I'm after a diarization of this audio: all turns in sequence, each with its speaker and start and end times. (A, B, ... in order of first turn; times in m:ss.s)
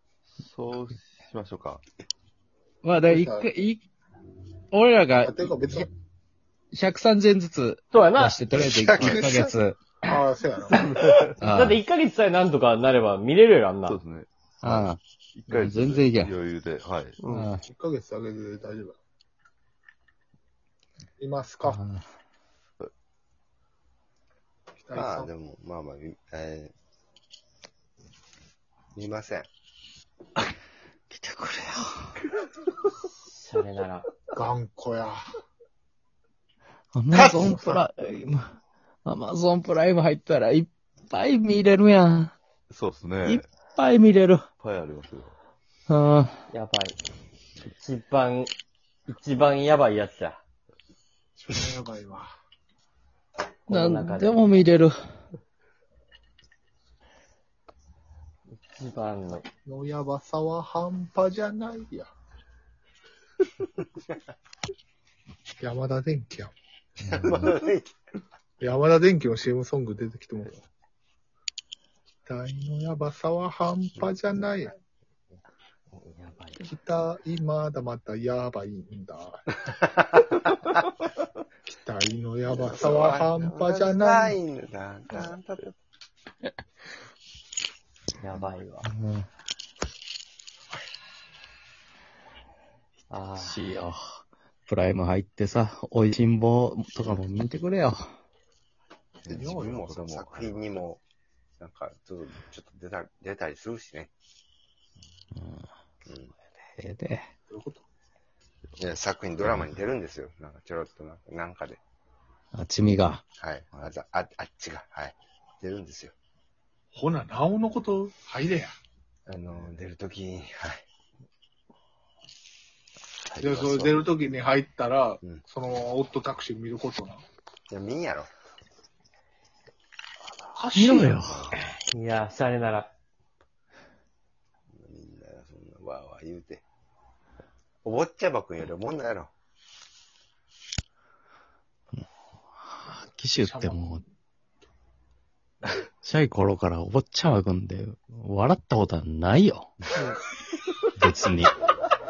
0:00.4-0:01.8 A
0:02.8-0:03.8 B
0:03.1-0:03.5 C
0:04.7-0:05.4 B
0:05.2-0:05.9 C
0:06.7-0:09.8 B
0:07.9-0:08.4 D
0:09.0-0:09.3 A
0:09.0-0:09.4 C
0:10.0-0:10.9 C
0:11.0-0:14.0 D
0:11.4-0:11.8 B
0:13.8-0:17.2 A
0:14.6-0:15.0 B
0:15.5-0:16.4 B
0:17.2-0:17.5 D
0:17.2-0:17.6 B
0:17.7-0:19.0 C
0:21.2-0:21.8 C
0:21.6-0:22.0 B
0:24.8-0:25.3 C
0:24.9-0:26.7 E
0:28.9-0:29.5 E
0:31.1-0:32.2 B
0:33.3-0:34.1 D
0:34.3-0:35.2 C
0:36.9-0:38.5 B
0:37.1-0:37.8 E
0:39.0-0:42.3 B
0:42.7-0:43.4 A
0:43.2-0:44.4 B
0:44.6-0:45.4 A
0:45.9-0:46.4 B
0:46.5-0:47.0 D
0:47.7-0:48.5 D
0:49.1-0:50.4 D
0:51.4-0:52.3 C
0:53.7-0:54.5 D
0:53.7-0:54.9 B
0:58.5-0:59.5 D
0:59.6-1:02.1 C
1:05.6-1:06.5 C
1:07.0-1:07.5 B
1:07.1-1:07.9 E
1:08.6-1:10.6 C
1:12.2-1:14.7 C
1:15.9-1:16.6 D
1:16.6-1:19.4 C
1:21.7-1:24.4 C
1:22.5-1:25.8 E
1:28.2-1:28.9 D
1:28.8-1:29.2 B
1:33.1-1:33.6 D
1:33.4-1:38.0 B
1:39.2-1:39.8 C
1:39.2-1:41.0 E
1:39.3-1:40.7 A
1:41.6-1:44.1 E
1:45.4-1:45.7 B
1:46.0-1:46.3 E
1:46.7-1:47.3 B
1:47.5-1:47.8 C
1:48.8-1:51.8 E
1:49.4-1:49.7 A
1:52.5-1:53.2 B
1:53.4-1:56.1 E
1:56.9-1:58.7 C
1:59.3-2:00.8 E
2:03.3-2:04.1 A
2:03.4-2:07.2 C
2:07.7-2:08.3 E
2:10.5-2:11.3 C
2:10.7-2:11.5 B
2:11.6-2:12.9 D
2:14.7-2:16.6 E
2:17.8-2:19.3 E
2:22.6-2:24.0 B
2:23.4-2:23.8 C
2:26.0-2:29.8 B
2:30.9-2:31.5 B